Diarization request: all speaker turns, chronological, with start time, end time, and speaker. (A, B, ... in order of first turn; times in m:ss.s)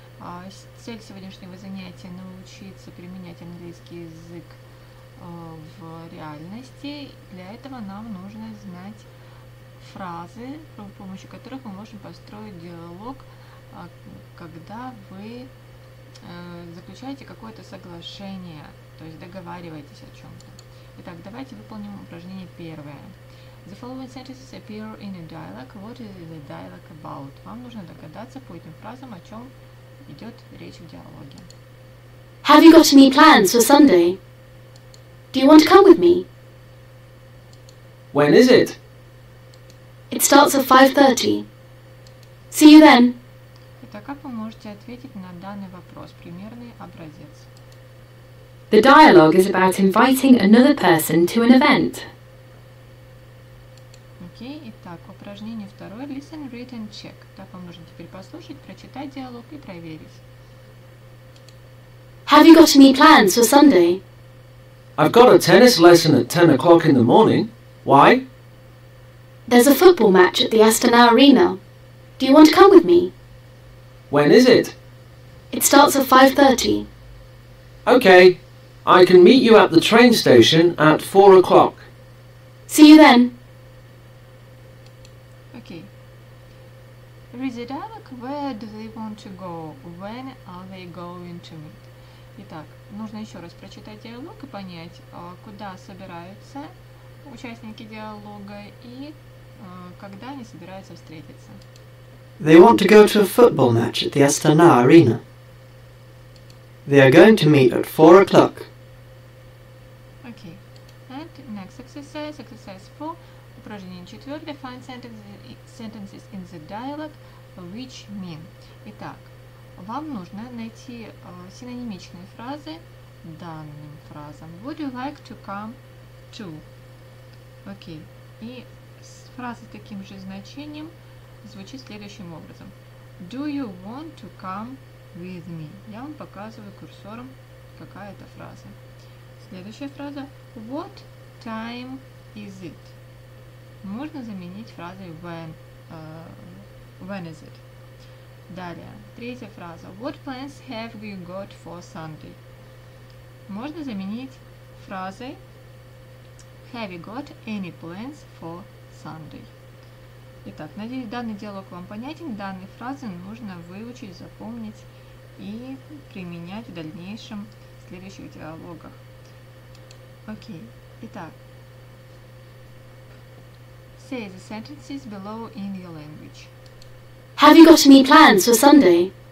0:00.2-0:04.6 A
0:05.2-0:09.1 A
0:09.8-0:15.5 A
0:16.2-0:29.5 A
0:30.0-0:31.5 A
0:32.4-0:34.2 B
0:35.3-0:36.3 B
0:38.1-0:38.8 C
0:40.1-0:41.5 B
0:42.5-0:43.2 B
0:43.8-0:47.5 A
0:48.7-0:52.1 D
0:54.2-1:00.2 A
1:02.3-1:04.0 B
1:05.0-1:08.2 C
1:09.5-1:11.6 B
1:12.2-1:13.1 B
1:14.1-1:14.8 C
1:15.5-1:16.9 B
1:17.8-1:21.9 C
1:22.7-1:23.3 B
1:25.5-1:25.9 A
1:27.3-1:36.7 A
1:37.2-1:41.6 A
1:42.4-1:45.2 E
1:46.9-1:48.7 E
1:50.2-2:05.8 A
2:06.3-2:06.6 A
2:07.6-2:18.8 A
2:19.4-2:23.0 A
2:23.8-2:27.6 A
2:28.5-2:32.4 A
2:33.5-2:35.4 A
2:36.6-2:39.5 A
2:40.4-2:49.0 A
2:50.3-2:51.4 A
2:54.0-2:56.5 A
2:57.4-2:59.1 B